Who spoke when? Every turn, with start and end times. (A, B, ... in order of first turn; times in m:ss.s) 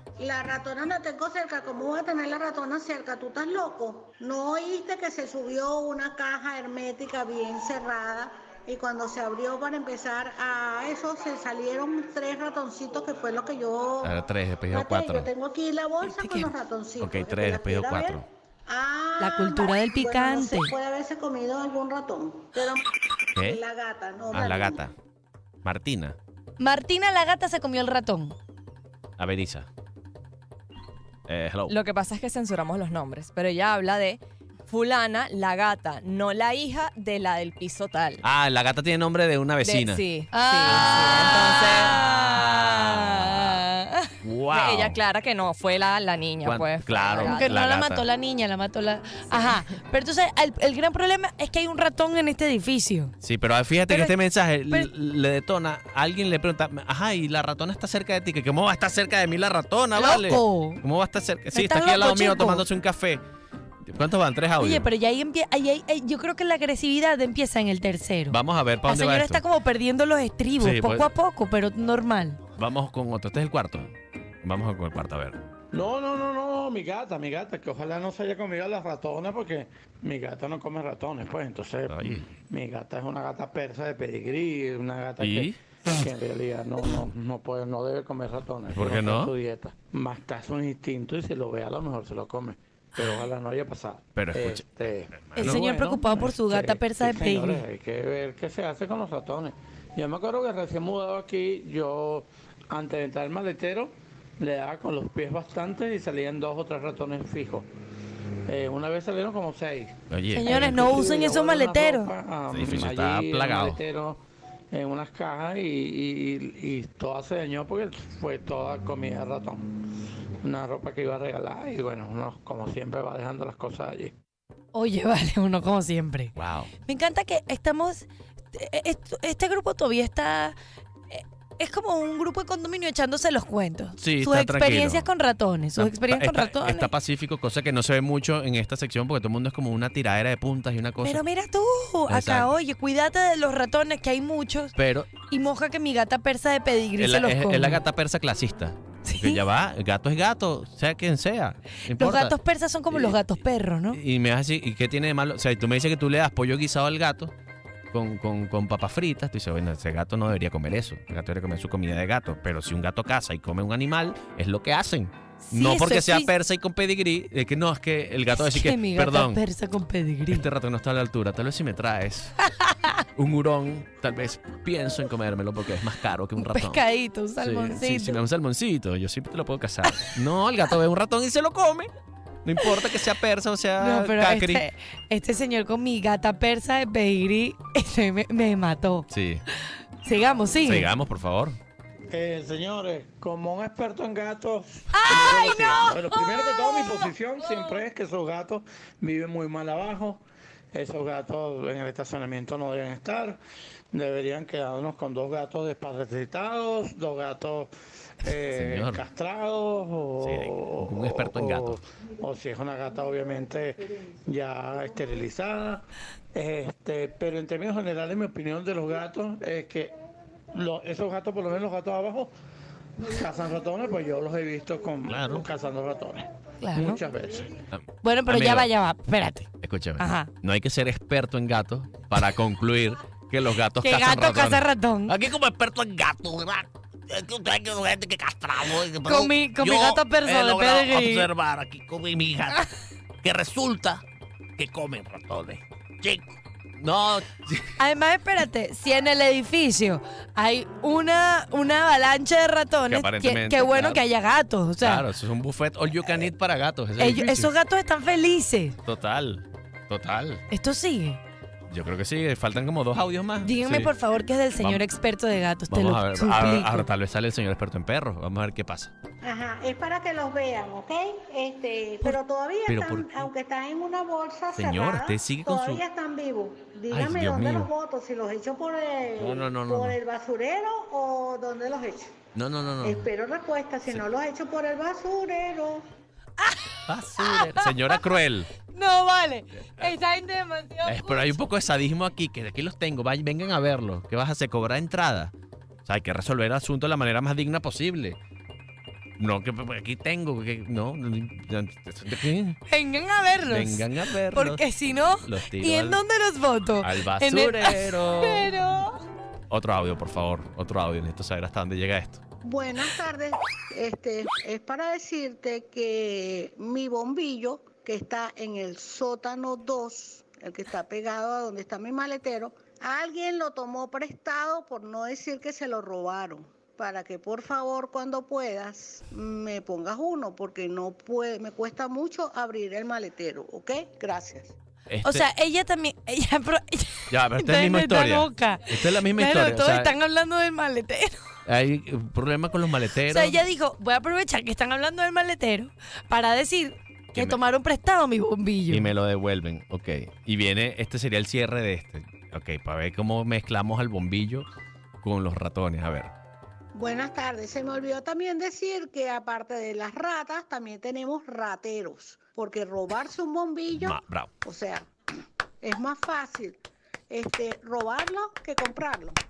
0:00.2-0:24.8 A
0:14.0-0:15.3 B
0:16.0-0:16.5 C
0:17.0-0:18.2 B
0:19.2-0:20.7 C
0:23.4-0:23.6 B
0:24.3-0:24.9 B
0:25.6-0:26.2 B
0:26.6-0:28.4 C
0:29.2-0:29.7 B
0:31.3-0:31.8 B
0:31.7-0:38.2 D
0:38.2-0:40.0 B
0:39.6-0:42.0 D
0:40.3-0:44.1 C
0:40.6-0:43.7 B
0:44.2-0:45.0 B
0:44.5-0:47.6 D
0:46.4-0:48.0 B
0:47.2-0:53.1 C
0:53.2-1:03.2 B
0:53.9-0:54.2 C
0:59.9-1:00.8 C
1:01.5-1:02.6 C
1:03.9-1:04.8 B
1:04.6-1:12.4 C
1:08.3-1:09.4 B
1:10.6-1:11.1 B
1:12.6-1:13.9 B
1:14.4-1:15.4 B
1:15.7-1:47.7 E
1:21.9-1:22.2 B
1:25.2-1:25.6 B
1:28.7-1:29.3 B
1:34.2-1:35.7 B
1:35.4-1:37.6 C
1:48.5-1:54.2 E
1:50.1-1:50.8 B
1:50.3-1:52.1 C
1:52.5-1:53.8 B
1:54.7-1:59.6 E
2:00.4-2:04.1 E
2:04.7-2:06.3 C
2:06.4-2:06.7 B
2:06.8-2:10.5 C
2:11.1-2:16.9 C
2:14.0-2:15.1 B
2:15.7-2:21.2 B
2:21.0-2:24.7 C
2:22.1-2:22.5 B
2:24.8-2:25.1 B
2:25.3-2:27.8 C
2:27.0-2:32.4 B
2:29.0-2:29.4 C
2:31.9-2:34.0 C
2:32.9-2:33.2 B
2:33.9-2:37.3 B
2:37.9-2:49.4 B
2:45.4-2:46.3 C
2:48.3-2:50.5 C
2:50.3-2:52.4 B
2:52.6-2:53.0 C
2:53.1-2:56.8 B
2:56.4-2:58.2 C
2:57.4-3:01.9 B
2:59.9-3:00.1 C
3:02.4-3:04.6 B
3:03.8-3:09.1 C
3:09.1-3:09.4 B
3:10.0-3:10.9 C
3:10.6-3:11.6 B
3:12.1-3:20.2 E
3:14.9-3:17.1 C
3:20.7-3:23.4 E
3:23.9-3:39.9 E
3:28.5-3:29.0 B
3:30.2-3:31.8 B
3:40.5-3:42.3 E
3:43.0-3:47.5 E
3:45.1-3:45.4 B
3:46.6-3:47.0 C
3:47.7-3:48.7 B
3:48.0-3:50.3 C
3:49.6-4:02.7 B
3:53.8-3:55.1 C
3:59.0-4:01.3 C
4:03.2-4:04.0 B
4:04.6-4:07.8 B
4:07.8-4:15.0 C
4:12.9-4:14.0 B
4:14.8-4:17.5 B
4:17.0-4:18.8 C
4:18.8-4:20.4 B
4:20.5-4:21.2 C
4:21.7-4:23.9 B
4:23.4-4:26.9 C
4:24.6-4:24.8 B
4:25.7-4:28.9 B
4:29.2-4:42.1 A
4:32.7-4:33.3 B
4:34.5-4:35.8 B
4:36.9-4:37.7 B
4:39.2-4:40.0 B
4:42.3-4:43.1 B
4:42.8-4:45.8 A
4:46.4-4:48.0 C
4:46.9-4:48.5 B
4:48.7-4:51.4 C
4:50.8-4:55.3 B
4:55.8-4:58.2 B
4:59.2-5:02.6 B
5:02.7-5:09.0 C
5:03.5-5:06.0 B
5:06.8-5:08.5 B
5:09.5-5:12.2 B
5:12.4-5:34.5 A
5:34.9-5:35.2 B
5:35.0-5:41.2 C
5:37.1-5:40.0 B
5:41.4-5:43.4 B
5:43.1-5:48.9 C
5:48.7-5:54.5 B
5:55.0-5:56.1 B
5:56.7-6:04.9 A
6:03.7-6:04.3 B
6:05.6-6:06.6 A
6:07.1-6:09.2 A